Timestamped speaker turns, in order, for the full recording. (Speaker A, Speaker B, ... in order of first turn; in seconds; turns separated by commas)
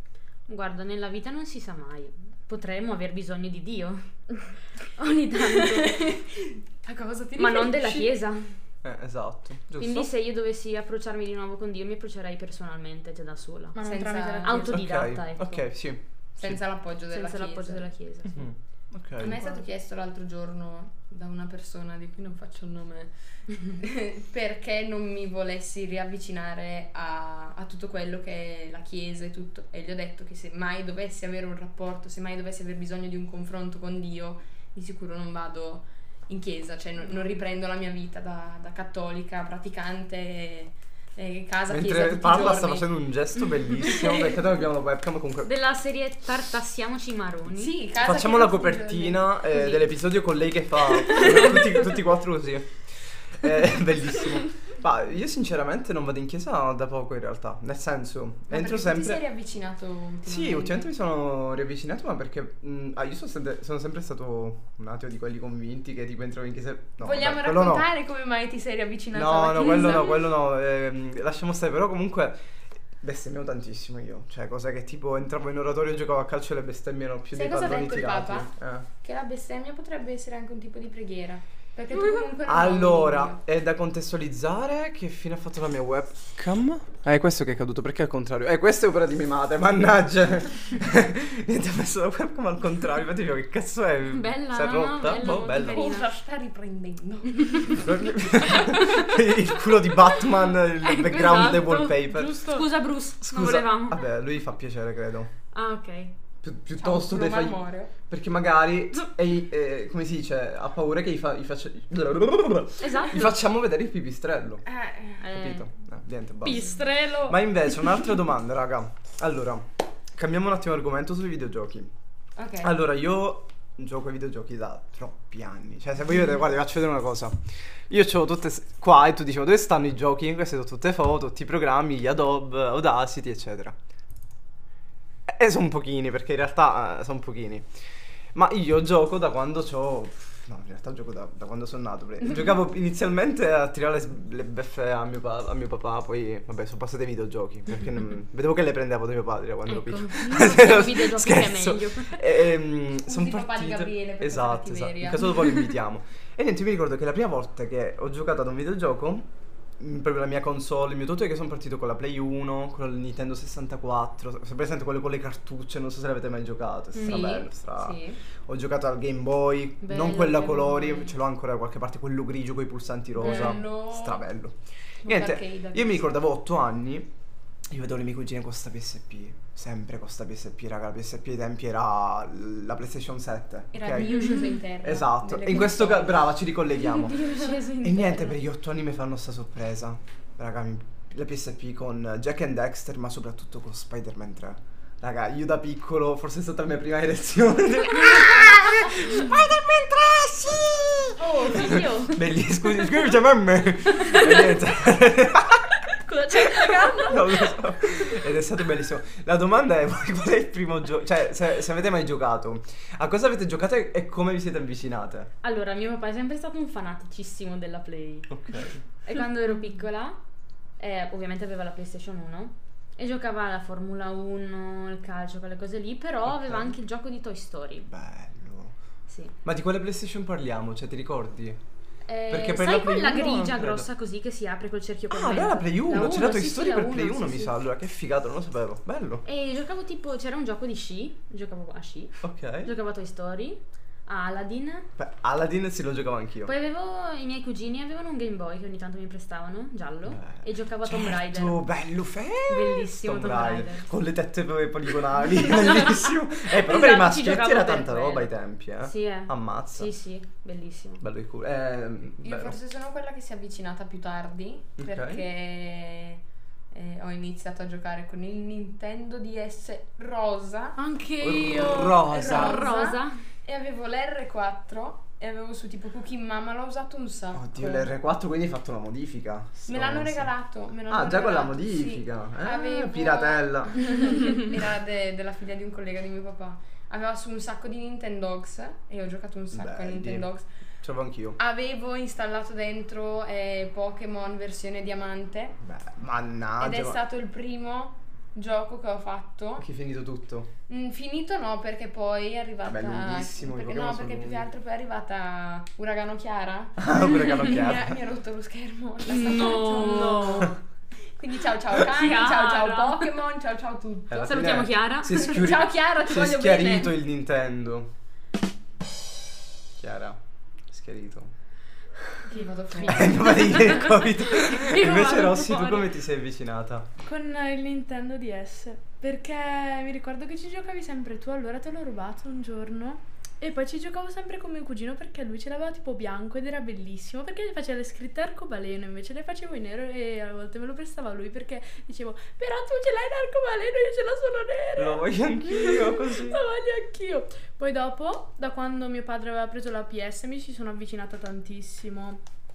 Speaker A: 0.5-6.1, Speaker B: 5.7-8.2, Speaker A: 7.4-8.5, Speaker C: 8.8-10.1, Speaker A: 9.8-13.8, Speaker D: 13.7-14.8, Speaker B: 13.8-14.6, Speaker A: 14.4-15.7, Speaker C: 14.6-16.6, Speaker B: 16.4-17.9, Speaker A: 17.1-18.5, Speaker C: 18.3-19.4, Speaker B: 19.2-42.9, Speaker C: 41.7-45.5, Speaker B: 43.8-44.4, Speaker A: 45.4-47.7, Speaker B: 47.5-49.9, Speaker C: 48.0-59.2, Speaker B: 51.2-51.6, Speaker B: 58.5-60.9, Speaker C: 60.3-67.9, Speaker B: 67.0-70.3, Speaker C: 69.1-72.4, Speaker C: 73.0-78.9, Speaker B: 77.3-78.5, Speaker B: 79.0-83.4, Speaker C: 82.4-95.8, Speaker A: 94.1-96.1, Speaker B: 95.2-97.9, Speaker C: 97.8-102.6, Speaker A: 100.8-104.1, Speaker D: 102.1-102.7, Speaker C: 103.2-105.3, Speaker A: 105.5-106.1, Speaker C: 106.4-114.6, Speaker B: 106.8-107.9, Speaker A: 112.8-113.3, Speaker B: 114.7-115.2, Speaker A: 115.2-115.7, Speaker C: 115.3-121.9, Speaker D: 116.4-117.4, Speaker B: 122.4-122.8, Speaker C: 122.6-133.8, Speaker C: 135.3-137.7, Speaker C: 138.3-159.3, Speaker A: 149.7-152.2, Speaker B: 152.9-155.5, Speaker C: 159.8-177.1, Speaker A: 166.9-167.4, Speaker B: 167.0-168.2, Speaker A: 169.8-171.2, Speaker B: 173.2-174.2, Speaker A: 173.3-173.5, Speaker B: 175.0-176.2, Speaker C: 177.7-199.4, Speaker B: 183.7-186.3, Speaker A: 186.8-188.4, Speaker E: 199.1-201.1, Speaker A: 201.2-202.2, Speaker C: 201.5-205.6, Speaker A: 204.0-204.5, Speaker A: 206.1-207.5, Speaker C: 206.3-215.3, Speaker D: 206.4-207.1, Speaker A: 215.4-220.2, Speaker C: 218.3-218.8, Speaker A: 220.8-227.9, Speaker C: 226.2-226.8, Speaker C: 227.9-228.7, Speaker A: 229.1-229.3, Speaker C: 229.4-231.6, Speaker A: 232.1-237.6, Speaker C: 232.3-233.9, Speaker C: 235.1-239.2, Speaker A: 239.2-244.9, Speaker C: 242.2-242.7, Speaker C: 245.0-246.5, Speaker A: 246.4-251.7, Speaker C: 250.1-259.9, Speaker A: 252.5-253.9, Speaker A: 255.5-258.3, Speaker A: 258.8-261.0, Speaker C: 261.0-262.6, Speaker B: 262.2-266.2, Speaker C: 264.8-265.2, Speaker B: 266.7-270.8, Speaker D: 270.8-272.0, Speaker C: 271.2-272.7, Speaker A: 271.8-273.1, Speaker B: 271.9-277.9, Speaker C: 277.4-280.3, Speaker B: 279.7-290.5, Speaker C: 280.9-283.9, Speaker C: 289.5-290.3, Speaker C: 290.8-291.4, Speaker B: 291.4-295.6, Speaker C: 295.6-297.0, Speaker B: 296.6-299.7, Speaker C: 299.6-300.5, Speaker B: 300.7-310.5, Speaker C: 302.7-304.5, Speaker C: 306.8-308.0, Speaker A: 309.1-310.5, Speaker D: 309.4-310.5, Speaker B: 311.2-314.3, Speaker A: 311.8-313.1, Speaker C: 314.1-317.9, Speaker A: 314.1-315.4, Speaker B: 315.1-317.0, Speaker C: 319.8-321.3, Speaker B: 322.3-323.4, Speaker C: 322.8-326.9, Speaker A: 323.0-325.9, Speaker D: 327.0-352.2, Speaker C: 344.8-346.4